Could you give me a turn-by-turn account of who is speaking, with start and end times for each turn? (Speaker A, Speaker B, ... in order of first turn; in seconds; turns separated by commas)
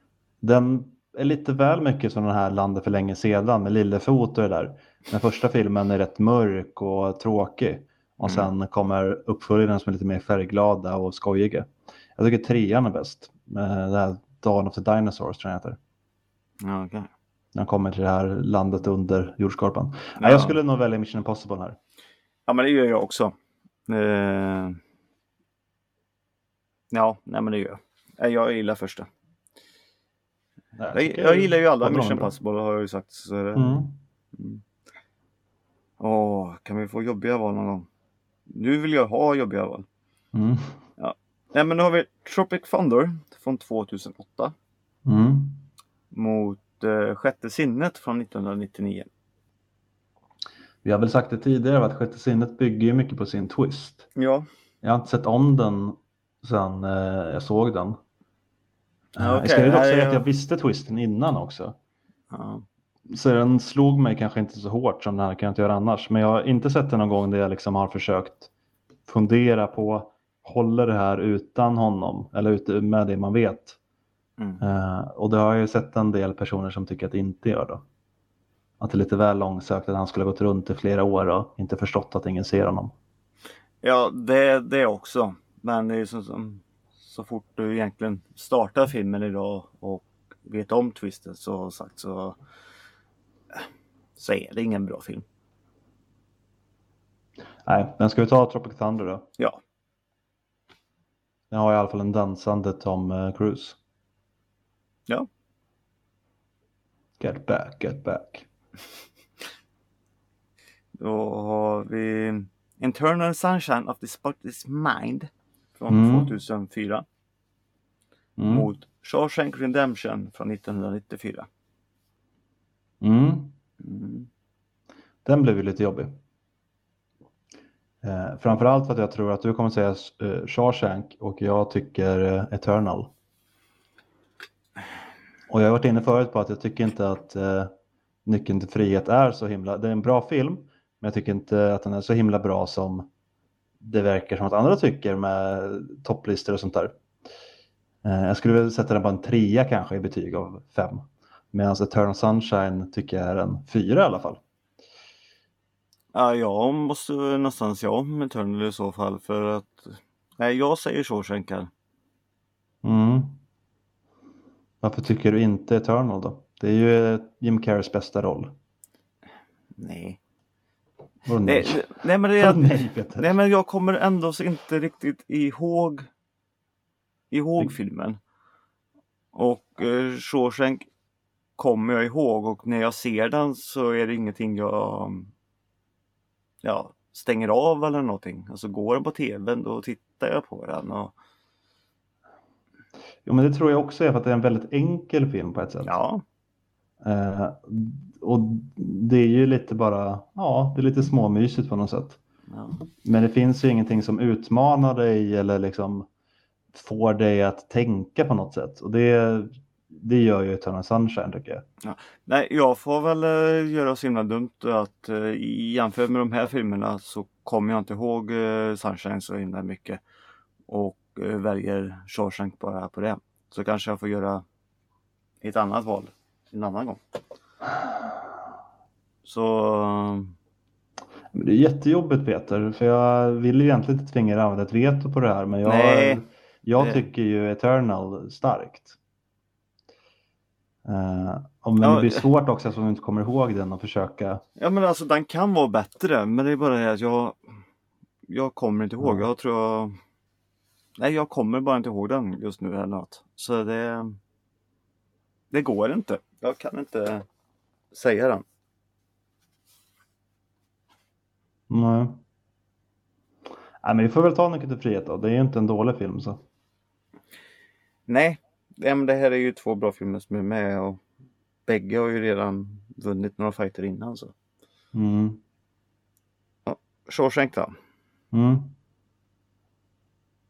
Speaker A: 0.4-15.8, Speaker B: 8.2-8.5, Speaker B: 16.6-17.1, Speaker A: 17.5-21.8, Speaker B: 20.2-20.6, Speaker B: 22.5-23.3, Speaker B: 23.9-24.8, Speaker B: 26.9-29.1, Speaker A: 30.8-32.3, Speaker B: 30.9-34.6, Speaker A: 33.5-33.9, Speaker B: 36.0-37.9, Speaker B: 38.5-39.9, Speaker A: 40.3-40.8, Speaker B: 41.0-44.5, Speaker A: 45.0-45.6, Speaker B: 46.1-49.1, Speaker A: 50.8-54.0, Speaker B: 54.1-54.5, Speaker A: 54.8-58.0, Speaker B: 59.2-60.2, Speaker A: 59.2-61.7, Speaker B: 62.3-62.6, Speaker A: 63.1-68.5, Speaker A: 69.1-73.8, Speaker A: 74.6-77.8, Speaker A: 78.8-82.9, Speaker B: 83.8-92.4, Speaker B: 94.2-95.2, Speaker A: 97.6-99.3, Speaker A: 101.5-103.8, Speaker A: 107.2-108.5, Speaker B: 111.0-117.0, Speaker A: 115.9-116.3, Speaker A: 118.4-118.7, Speaker B: 118.5-121.5, Speaker A: 123.0-123.5, Speaker B: 123.8-124.3, Speaker A: 125.2-126.2, Speaker A: 128.0-133.1, Speaker A: 135.5-137.7, Speaker A: 138.2-143.1, Speaker A: 143.8-146.9, Speaker A: 148.0-154.4, Speaker B: 156.1-161.7, Speaker A: 162.8-163.4, Speaker A: 164.8-168.5, Speaker B: 169.8-170.2, Speaker A: 171.2-173.3, Speaker B: 171.4-176.1, Speaker B: 177.3-178.2, Speaker B: 179.3-180.8, Speaker B: 181.6-185.3, Speaker B: 186.6-191.1, Speaker A: 193.2-195.9, Speaker B: 195.8-196.2, Speaker A: 197.0-202.2, Speaker B: 202.5-202.8, Speaker A: 203.0-206.1, Speaker A: 206.7-211.6, Speaker B: 211.8-220.0, Speaker B: 220.7-224.4, Speaker B: 225.4-227.0, Speaker B: 229.2-230.3, Speaker A: 231.3-239.0, Speaker B: 235.6-236.2, Speaker A: 240.8-244.4, Speaker B: 241.8-242.2, Speaker B: 244.6-247.4, Speaker B: 248.3-250.0, Speaker B: 251.0-254.2, Speaker B: 255.5-257.2, Speaker B: 257.9-258.4, Speaker A: 261.7-262.2, Speaker A: 263.8-266.4, Speaker B: 268.1-271.0, Speaker B: 271.7-274.3, Speaker A: 274.9-275.4, Speaker B: 276.6-277.7, Speaker A: 278.3-278.7